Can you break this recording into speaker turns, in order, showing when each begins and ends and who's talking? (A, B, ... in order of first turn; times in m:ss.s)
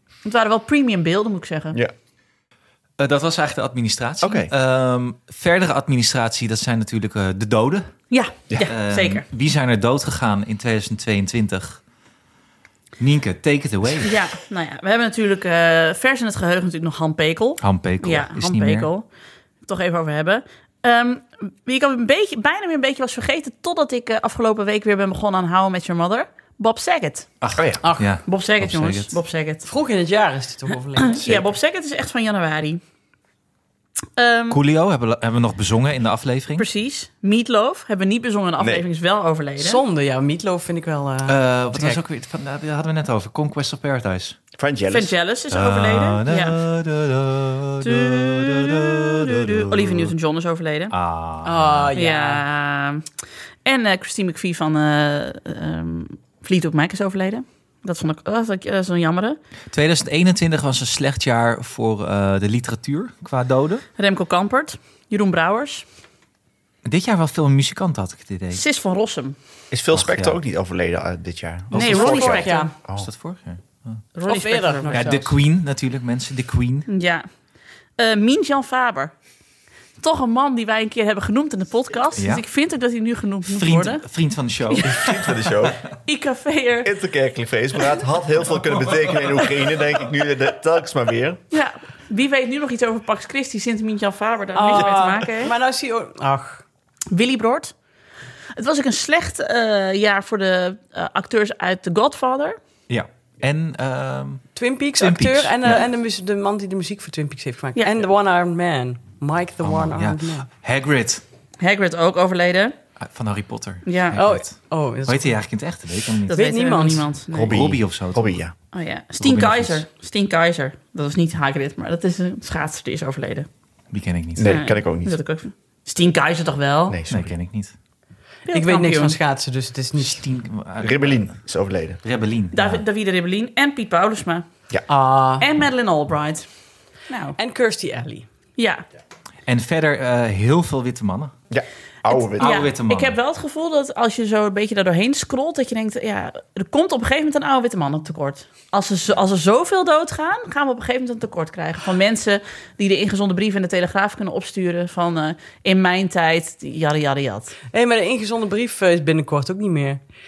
0:00.2-0:01.8 A
0:03.0-0:07.9 B
0:04.2-0:04.5 C
0:08.1-0:09.2 A
0:08.6-0:11.8 B
0:13.0-0:14.1 B
0:14.0-0:19.1 A
0:17.6-0:18.9 B
0:19.6-0:27.3 A
0:27.4-0:29.1 B
0:27.6-0:27.8 C
0:27.8-0:28.1 D
0:28.2-0:29.7 A
0:29.6-0:31.2 D
0:31.0-0:32.8 A
0:31.2-0:31.5 C
0:34.2-0:34.6 A
0:34.5-0:36.6 B
0:36.6-0:39.8 A
0:38.6-0:38.8 C
0:39.6-0:42.0 D
0:41.2-0:44.4 B
0:44.6-0:45.1 C
0:44.9-0:46.6 A
0:45.5-0:49.7 B
0:47.8-0:50.9 A
0:50.9-0:51.9 B
0:51.4-0:52.4 D
0:51.9-0:53.0 A
0:53.6-0:59.4 A
0:59.7-1:03.8 B
1:04.0-1:05.8 A
1:06.8-1:08.6 B
1:08.5-1:09.4 A
1:09.7-1:13.1 C
1:09.9-1:10.4 B
1:11.7-1:12.7 A
1:11.8-1:12.7 D
1:13.0-1:14.0 B
1:14.2-1:15.2 A
1:14.2-1:15.3 D
1:14.9-1:16.9 B
1:16.9-1:17.3 A
1:18.0-1:19.1 A
1:20.0-1:24.0 A
1:22.2-1:22.4 B
1:23.5-1:24.9 B
1:24.7-1:25.1 A
1:24.8-1:25.8 C
1:26.0-1:26.9 A
1:26.8-1:31.4 C
1:31.5-1:35.5 A
1:34.5-1:36.6 D
1:37.1-1:37.7 A
1:38.5-1:42.6 A
1:42.9-1:45.8 B
1:44.5-1:50.4 D
1:49.6-1:51.2 B
1:51.6-1:52.8 A
1:53.0-1:56.4 B
1:53.8-1:54.2 A
1:54.2-1:55.4 D
1:56.3-1:57.6 A
1:56.3-1:57.1 D
1:57.3-1:58.5 C
1:57.3-1:58.4 B
1:58.7-2:03.5 A
1:59.2-1:59.8 B
2:03.9-2:04.6 B
2:04.4-2:05.2 C
2:04.4-2:07.0 A
2:06.9-2:07.4 C
2:07.1-2:07.7 B
2:08.4-2:09.2 A
2:08.5-2:10.3 D
2:10.0-2:11.3 B
2:10.8-2:12.0 C
2:12.0-2:12.8 B
2:12.5-2:14.4 A
2:14.9-2:15.4 D
2:15.4-2:16.4 A
2:17.1-2:17.4 A
2:17.4-2:18.3 D
2:18.6-2:18.8 A
2:19.5-2:21.3 B
2:21.5-2:22.6 C
2:22.1-2:37.5 A
2:22.4-2:23.1 B
2:37.7-2:40.0 D